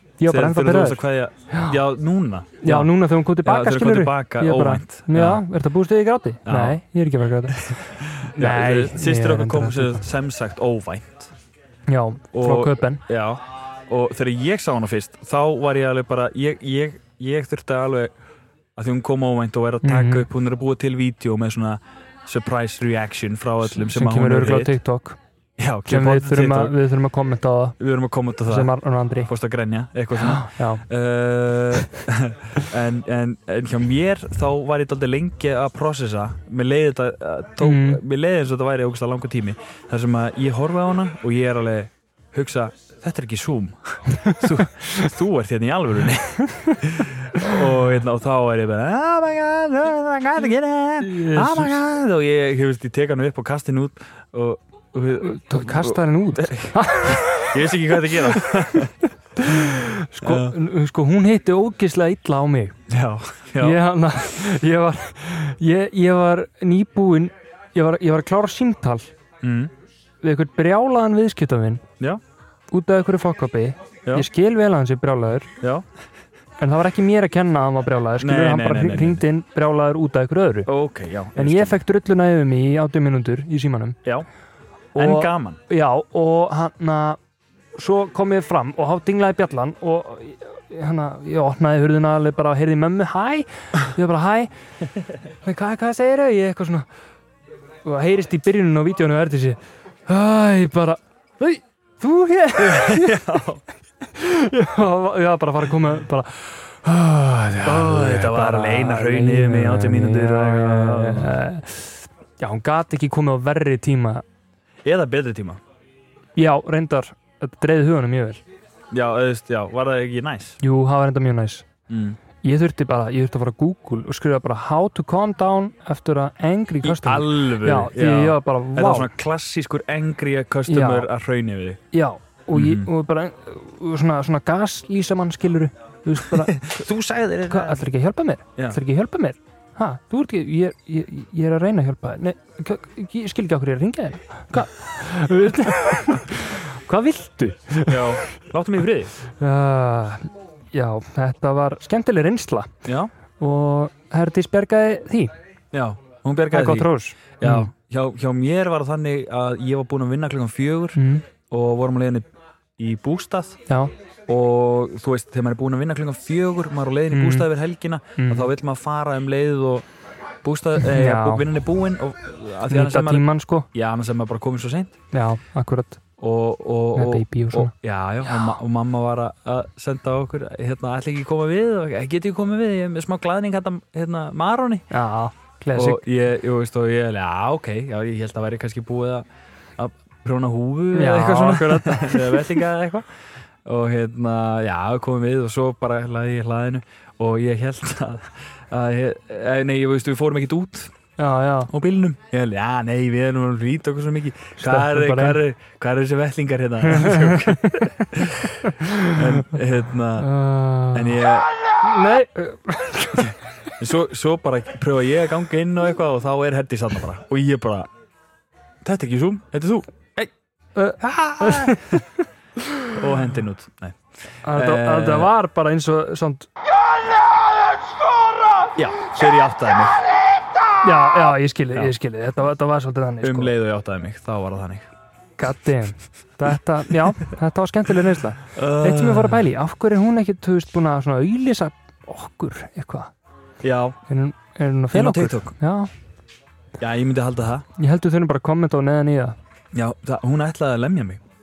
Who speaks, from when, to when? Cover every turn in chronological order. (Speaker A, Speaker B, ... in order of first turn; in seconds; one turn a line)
Speaker A: 0.2-1.8
Speaker B: 0.2-5.4
Speaker A: 2.6-7.7
Speaker B: 6.5-6.8
Speaker B: 7.5-11.3
Speaker A: 8.3-10.0
Speaker A: 11.9-13.0
Speaker B: 12.3-18.1
Speaker B: 18.8-24.7
Speaker A: 19.8-20.3
Speaker A: 23.6-25.2
Speaker B: 25.6-26.8
Speaker A: 25.9-27.8
Speaker B: 27.8-58.9
Speaker A: 28.5-29.3
Speaker A: 30.2-30.8
Speaker A: 37.6-38.0
Speaker A: 51.0-51.8
Speaker A: 55.2-58.8
Speaker A: 59.4-62.8
Speaker B: 59.5-60.6
Speaker B: 62.9-63.8
Speaker A: 63.6-69.1
Speaker B: 69.4-69.7
Speaker A: 70.2-71.8
Speaker A: 72.7-75.5
Speaker B: 75.6-75.9
Speaker A: 76.6-80.7
Speaker B: 78.2-79.2
Speaker B: 80.7-81.8
Speaker A: 81.3-84.0
Speaker A: 85.0-87.2
Speaker B: 85.0-85.6
Speaker A: 87.8-94.5
Speaker A: 95.4-96.9
Speaker A: 97.8-103.2
Speaker B: 102.6-103.6
Speaker A: 104.1-107.1
Speaker B: 106.8-111.4
Speaker A: 107.6-114.2
Speaker B: 114.8-115.6
Speaker A: 116.4-118.4
Speaker B: 118.9-120.6
Speaker A: 120.6-121.7
Speaker B: 121.9-122.2
Speaker A: 122.4-129.1
Speaker B: 126.8-131.8
Speaker A: 130.7-131.1
Speaker A: 131.9-136.7
Speaker B: 132.5-132.9
Speaker B: 136.3-137.8
Speaker A: 137.5-148.3
Speaker B: 147.9-149.1
Speaker A: 149.4-152.7
Speaker B: 152.8-153.1
Speaker A: 153.4-155.3
Speaker B: 155.7-162.3
Speaker A: 156.5-157.7
Speaker A: 161.0-161.3
Speaker B: 162.8-163.6
Speaker B: 164.3-169.9
Speaker A: 167.1-167.5
Speaker A: 168.2-168.5
Speaker B: 170.4-174.9
Speaker A: 170.8-171.4
Speaker A: 172.7-173.7
Speaker A: 175.1-176.0
Speaker B: 176.2-184.9
Speaker A: 176.9-177.7
Speaker A: 184.9-186.0
Speaker B: 185.7-189.3
Speaker B: 189.8-193.1
Speaker A: 190.9-192.6
Speaker B: 193.7-200.9
Speaker A: 201.2-201.7
Speaker B: 201.7-210.3
Speaker A: 204.6-205.4
Speaker A: 206.8-208.1
Speaker A: 208.6-209.4
Speaker A: 210.2-213.4
Speaker B: 210.9-211.5
Speaker B: 213.2-217.9
Speaker B: 218.8-220.3
Speaker A: 220.8-222.0
Speaker B: 221.0-222.0
Speaker B: 222.9-225.3
Speaker A: 224.4-226.5
Speaker B: 228.7-230.0
Speaker A: 230.8-233.5
Speaker B: 233.2-234.9
Speaker A: 235.4-243.1
Speaker B: 238.6-239.4
Speaker B: 243.6-244.0
Speaker A: 244.1-245.9
Speaker B: 244.9-245.5
Speaker B: 246.8-247.7
Speaker A: 247.8-249.4
Speaker B: 249.7-251.2